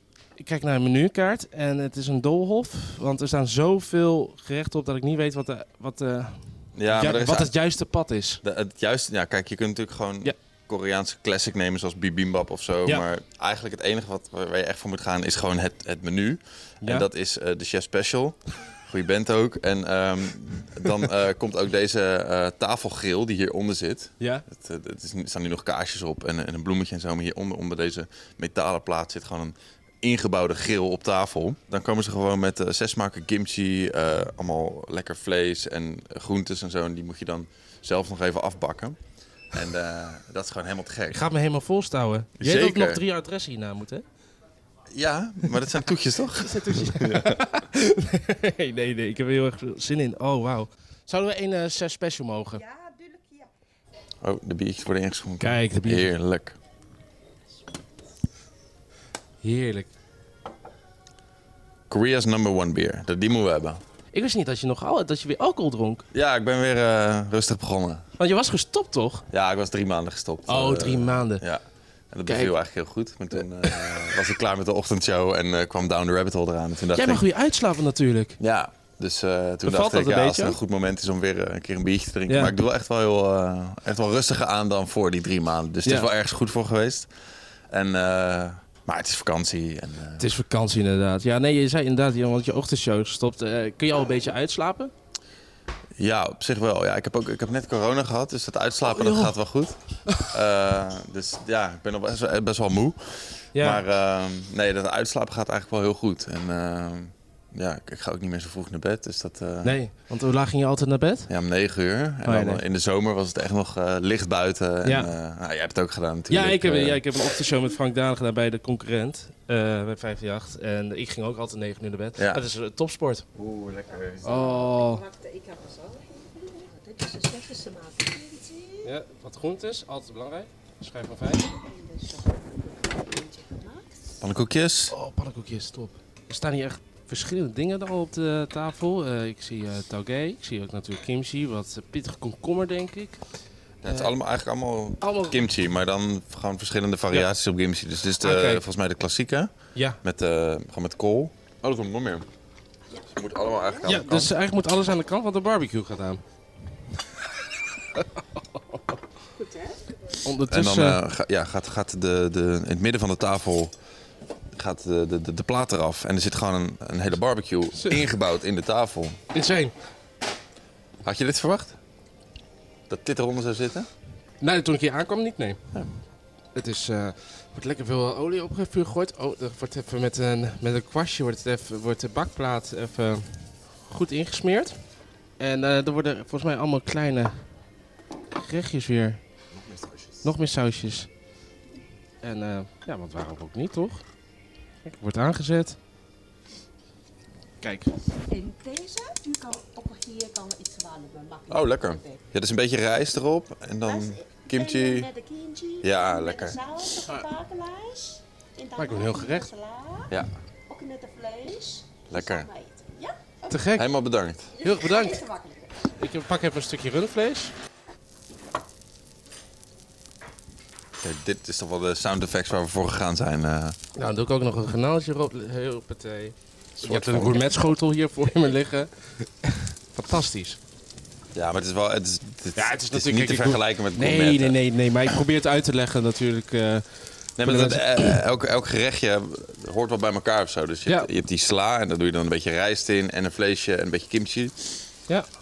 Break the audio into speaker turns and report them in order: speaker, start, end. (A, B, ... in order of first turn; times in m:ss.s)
0:00.4-0:08.4 A
0:06.7-0:07.5 B
0:08.4-0:39.0 B
0:39.5-0:41.2 B
0:41.1-0:44.0 A
0:42.4-0:43.0 B
0:44.9-0:47.4 B
0:46.3-0:52.6 A
0:52.5-0:53.5 C
0:54.2-0:56.5 B
0:55.4-0:56.1 A
0:59.4-0:59.9 A
1:01.9-1:03.8 B
1:04.1-1:06.0 A
1:06.1-1:08.0 B
1:08.2-1:09.2 A
1:09.3-1:17.2 B
1:10.5-1:11.4 A
1:12.3-1:12.5 A
1:13.4-1:14.1 A
1:16.9-1:18.4 A
1:18.4-1:27.1 B
1:19.6-1:20.6 A
1:22.3-1:22.5 A
1:27.7-1:30.2 B
1:30.2-1:34.9 A
1:36.0-1:49.8 B
1:38.9-1:39.3 A
1:43.5-1:43.8 A
1:49.6-1:51.3 A
1:51.3-1:57.0 B
1:52.2-1:52.6 A
1:54.8-1:55.1 A
1:56.3-2:03.2 A
2:02.2-2:02.4 B
2:03.4-2:04.2 B
2:04.2-2:08.9 C
2:04.2-2:05.0 A
2:08.8-2:11.5 A
2:11.4-2:14.1 C
2:14.2-2:14.9 B
2:14.9-2:23.2 A
2:23.8-2:29.5 B
2:23.8-2:24.1 A
2:25.0-2:25.4 A
2:28.2-2:28.6 A
2:30.0-2:32.2 B
2:32.9-2:34.0 C
2:33.1-2:34.3 B
2:33.8-2:36.2 A
2:37.9-2:38.8 A
2:39.4-2:39.8 C
2:40.2-2:41.0 A
2:40.5-2:43.7 B
2:44.5-2:49.2 B
2:49.3-2:49.7 A
2:51.0-2:51.8 B
2:52.9-2:53.9 B
2:54.4-2:55.6 A
2:56.5-3:04.8 A
3:05.4-3:07.4 A
3:08.4-3:09.2 A
3:10.2-3:11.1 A
3:12.2-3:14.0 A
3:14.8-3:15.8 A
3:17.6-3:18.0 A
3:18.2-3:22.2 C
3:21.5-3:25.1 B
3:23.8-3:30.1 C
3:25.8-3:26.6 B
3:28.8-3:29.5 A
3:30.7-3:33.7 C
3:32.1-3:32.5 B
3:33.5-3:33.9 A
3:33.8-3:34.5 B
3:34.5-3:35.9 C
3:34.6-3:35.2 A
3:36.0-3:37.5 A
3:41.0-3:43.8 B
3:44.0-3:50.6 A
3:46.8-3:47.5 B
3:51.3-3:55.2 B
3:52.6-3:56.8 A
3:57.4-4:04.9 B
3:57.4-3:58.2 A